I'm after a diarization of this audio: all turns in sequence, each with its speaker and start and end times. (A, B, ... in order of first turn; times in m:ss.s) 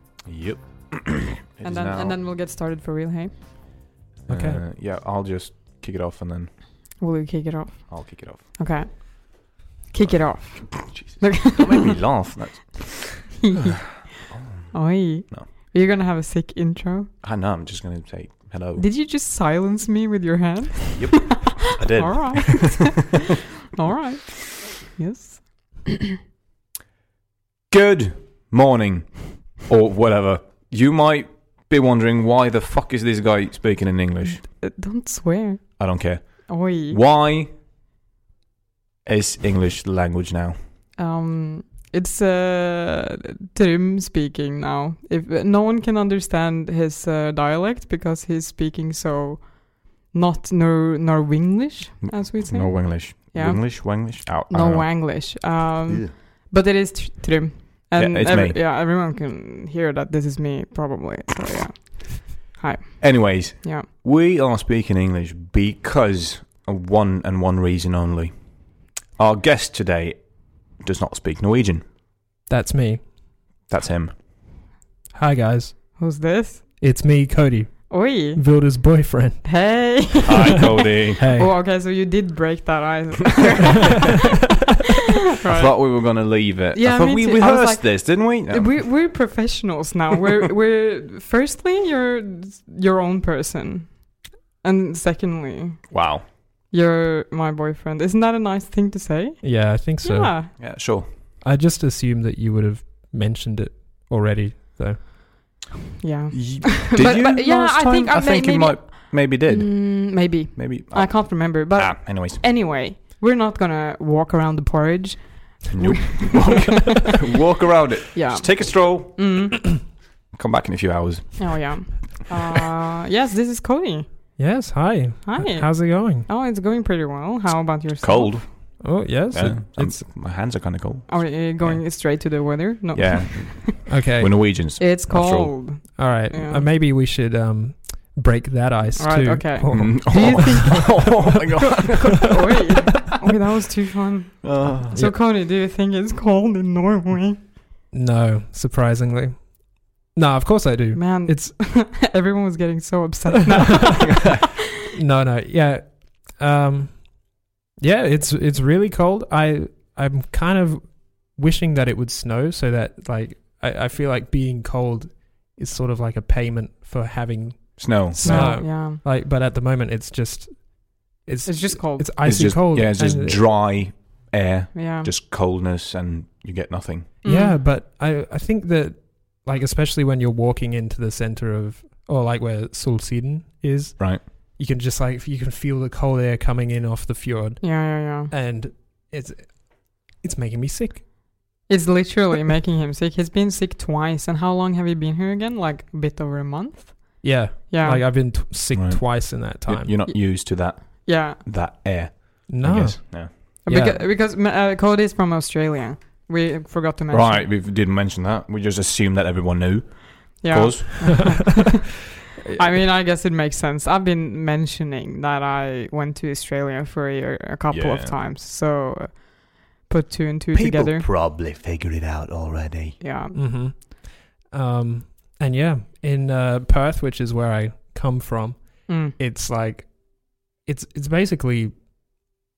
0:00.2-0:02.2 A
0:01.6-0:03.3 B
0:04.2-0:06.5 A
0:04.3-0:04.6 C
0:07.0-0:12.0 B
0:07.9-0:09.0 A
0:10.0-0:13.4 A
0:13.4-0:17.1 B
0:14.3-0:15.5 A
0:17.2-0:18.9 A
0:18.8-0:23.2 B
0:20.9-0:22.9 A
0:23.8-0:26.0 B
0:27.7-0:34.4 A
0:34.4-0:37.0 B
0:35.8-0:37.5 A
0:39.0-0:40.6 A
0:41.0-1:03.9 B
0:52.0-0:56.1 A
0:58.0-0:58.6 A
1:03.0-1:11.8 A
1:12.5-1:13.1 C
1:13.7-1:14.1 A
1:15.1-1:16.0 C
1:16.0-1:16.7 B
1:16.8-1:19.6 C
1:17.9-1:18.6 B
1:19.4-1:24.2 B
1:20.2-1:21.3 A
1:21.2-1:21.5 C
1:25.4-1:40.5 B
1:25.4-1:29.0 A
1:35.9-1:36.2 A
1:39.4-1:45.1 C
1:40.6-1:41.1 A
1:46.0-1:57.1 B
1:46.3-1:52.5 A
1:55.7-1:59.7 A
1:58.1-1:59.6 B
2:00.3-2:01.9 A
2:01.4-2:04.4 B
2:04.4-2:06.3 C
2:05.2-2:08.5 B
2:08.0-2:11.8 A
2:08.8-2:10.0 C
2:11.1-2:13.9 B
2:12.9-2:15.6 A
2:13.8-2:14.6 C
2:14.6-2:16.7 B
2:15.9-2:20.9 C
2:19.0-2:27.4 B
2:19.7-2:22.4 A
2:24.4-2:25.0 A
2:24.9-2:25.2 C
2:27.9-2:31.6 C
2:30.9-2:34.3 B
2:34.9-2:53.5 C
2:47.8-2:48.6 A
2:48.2-2:49.0 B
2:51.4-2:52.5 B
2:52.2-2:57.1 A
2:54.7-2:55.1 B
2:57.2-2:57.6 B
2:57.2-3:11.0 C
3:07.6-3:08.3 B
3:11.7-3:18.0 B
3:17.2-3:20.0 C
3:18.7-3:23.3 A
3:20.1-3:21.4 B
3:22.5-3:24.0 C
3:23.6-3:27.5 B
3:27.1-3:31.5 A
3:30.4-3:41.1 B
3:37.7-3:38.2 A
3:40.5-3:43.0 A
3:43.0-3:43.4 B
3:43.3-3:51.7 C
3:48.9-3:49.2 B